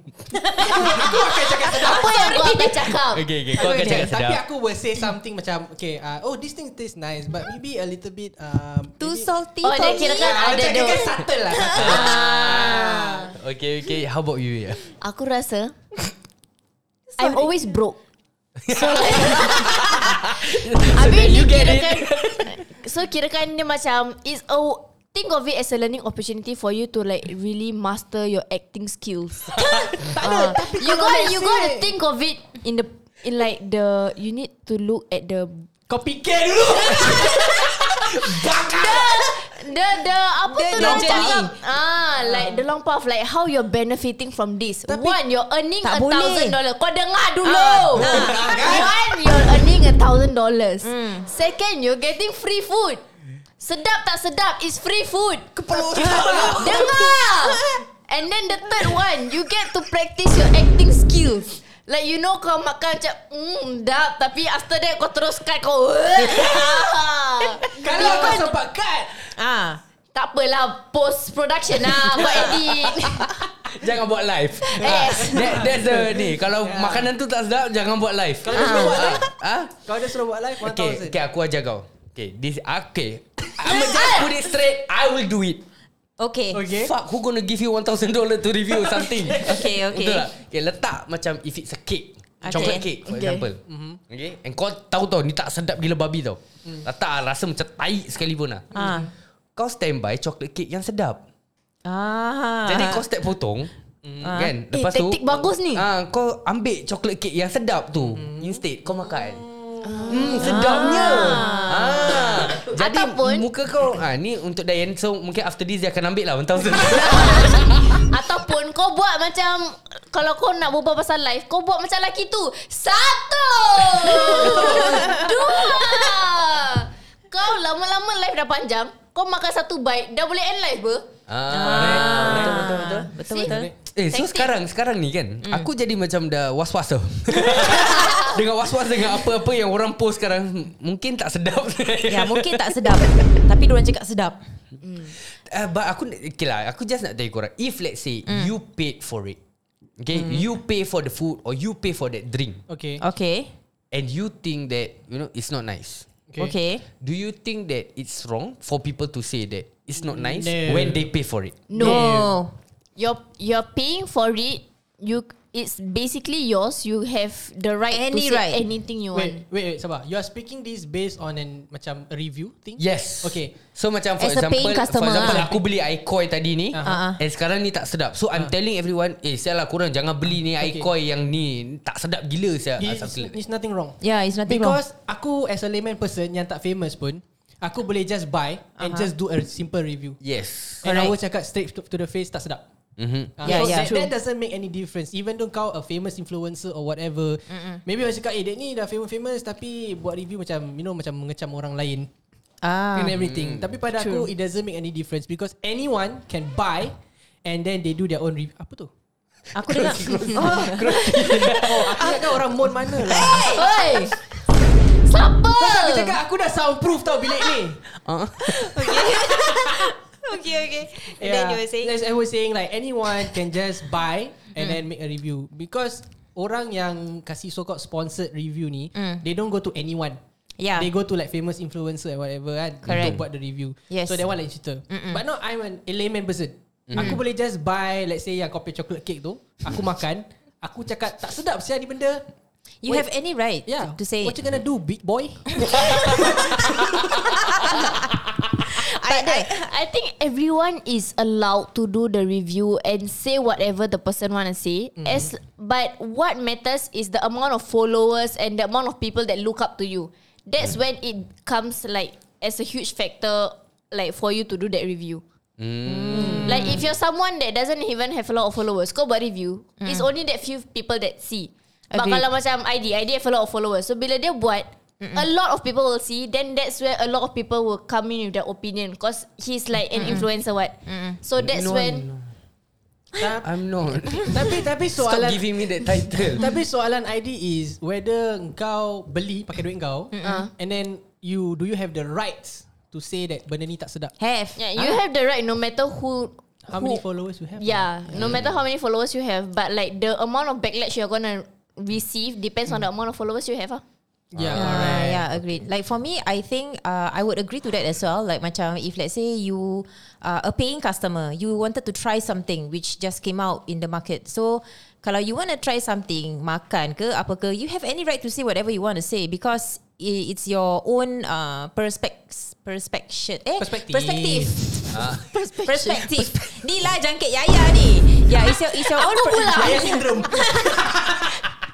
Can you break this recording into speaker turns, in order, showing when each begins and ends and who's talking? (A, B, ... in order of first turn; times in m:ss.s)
0:00.3-0:02.6 A
0:00.6-0:02.6 B
0:01.8-0:03.3 C
0:02.9-0:04.4 D
0:03.5-0:13.3 B
0:03.6-0:04.1 A
0:09.0-0:10.4 A
0:09.6-0:11.2 C
0:11.6-0:14.9 D
0:11.7-0:12.8 A
0:11.8-0:13.2 C
0:15.0-0:15.7 C
0:17.1-0:17.5 A
0:17.2-0:18.0 C
0:18.6-0:22.6 D
0:18.7-0:20.2 C
0:20.8-0:35.7 C
0:30.0-0:31.9 B
0:30.2-0:30.6 A
0:35.9-0:39.3 B
0:37.0-0:37.3 C
0:38.3-0:39.1 D
0:38.6-0:53.0 C
0:40.5-0:41.5 A
0:40.7-0:41.5 B
0:42.3-0:42.6 B
0:44.9-0:45.2 B
0:45.8-0:46.6 A
0:47.4-0:48.8 A
0:47.9-0:49.6 B
0:50.8-0:51.3 A
0:53.6-1:08.5 C
0:55.6-0:57.0 D
0:55.7-0:57.0 B
0:56.0-0:57.8 A
1:06.2-1:06.7 D
1:07.6-1:09.3 B
1:07.9-1:08.4 A
1:09.3-1:09.8 A
1:10.1-1:13.3 C
1:11.8-1:12.7 A
1:13.6-1:19.8 D
1:14.7-1:15.7 C
1:14.8-1:17.1 B
1:18.4-1:19.3 B
1:18.5-1:19.2 A
1:19.8-1:21.2 B
1:20.6-1:25.6 D
1:23.6-1:24.4 C
1:26.2-1:26.6 A
1:26.5-1:26.9 B
1:26.7-1:38.7 D
1:28.7-1:29.6 B
1:29.3-1:30.3 A
1:32.4-1:32.9 A
1:33.7-1:34.0 B
1:38.7-1:39.1 A
1:38.8-1:39.1 B
1:39.6-1:41.2 D
1:41.8-1:43.0 A
1:42.6-1:43.7 D
1:44.0-1:44.4 B
1:44.2-1:44.5 A
1:44.2-1:49.4 D
1:44.7-1:45.8 C
1:48.0-1:50.6 B
1:49.8-1:53.5 C
1:50.1-1:58.1 D
1:50.3-1:52.2 A
1:56.8-2:11.1 C
2:04.2-2:05.1 B
2:04.4-2:05.8 A
2:11.3-2:13.1 D
2:11.5-2:13.7 A
2:11.6-2:12.7 B
2:13.2-2:13.6 C
2:13.3-2:13.7 B
2:13.9-2:23.4 D
2:14.1-2:14.5 C
2:17.5-2:18.3 C
2:22.1-2:24.4 A
2:24.8-2:25.1 C
2:25.3-2:29.4 D
2:28.3-2:28.5 A
2:30.0-2:32.6 D
2:30.1-2:30.4 A
2:32.7-2:33.0 B
2:33.0-2:33.5 A
2:33.9-2:36.1 D
2:36.3-2:36.5 B
2:36.4-2:36.8 A
2:37.0-2:41.6 D
2:40.0-2:41.1 B
2:41.7-2:42.1 C
2:41.7-2:42.3 B
2:41.8-2:42.5 A
2:43.0-2:49.4 C
2:47.9-2:48.6 A
2:49.1-2:53.5 B
2:52.8-3:03.4 D
2:54.2-2:55.5 A
2:55.2-2:55.6 B
2:56.7-2:57.0 B
2:56.8-2:57.2 A
3:00.4-3:00.9 B
3:02.8-3:10.2 B
3:04.0-3:04.8 A
3:08.8-3:09.1 A
3:10.2-3:10.8 D
3:10.8-3:12.6 B
3:10.8-3:11.2 A
3:13.0-3:13.7 D
3:13.4-3:22.1 B
3:13.4-3:13.9 A
3:13.7-3:14.1 C
3:17.5-3:17.8 A
3:22.6-3:23.2 A
3:22.9-3:28.9 B
3:23.1-3:23.8 D
3:24.0-3:24.3 C
3:29.5-3:32.3 A
3:29.6-3:32.2 D
3:29.7-3:33.6 B
3:33.0-3:33.7 A
3:33.1-3:33.4 D
3:33.4-3:34.1 C
3:35.0-3:36.2 C
3:35.6-3:37.8 B
3:37.9-3:39.1 D
3:38.4-3:41.9 A
3:39.1-3:39.9 B
3:41.2-3:50.2 B
3:44.6-3:44.8 A
3:48.9-3:49.2 A
3:50.6-3:50.9 A
3:50.8-4:02.2 B
3:52.8-3:53.2 A
3:52.8-3:53.2 D
3:53.9-3:54.2 A
3:54.9-3:55.2 A
3:56.9-3:57.2 D
4:02.8-4:04.4 A
4:03.6-4:07.8 B
4:05.6-4:06.6 A
4:05.8-4:06.3 D
4:07.3-4:08.0 A
4:08.6-4:09.7 A
4:09.0-4:25.2 C
4:15.0-4:15.3 B
4:25.6-4:26.8 D
4:25.8-4:26.8 A
4:26.1-4:42.1 C
4:31.9-4:32.2 A
4:39.9-4:40.3 A
4:40.9-4:41.2 A
4:41.4-4:42.3 D
4:43.2-4:43.5 B
4:43.4-4:46.5 D
4:44.2-4:54.1 B
4:50.1-4:50.5 A
4:50.2-4:50.5 C
4:54.2-4:55.0 A
4:54.6-4:57.0 C
4:56.7-4:57.9 B
4:57.6-5:03.8 C
4:58.1-4:58.6 D
5:04.3-5:05.2 B
5:04.3-5:05.6 D
5:04.5-5:24.8 A
5:23.6-5:24.8 B
5:24.9-5:25.3 D
5:25.3-5:26.0 C
5:25.6-5:30.9 A
5:28.7-5:30.1 C
5:29.3-5:31.5 B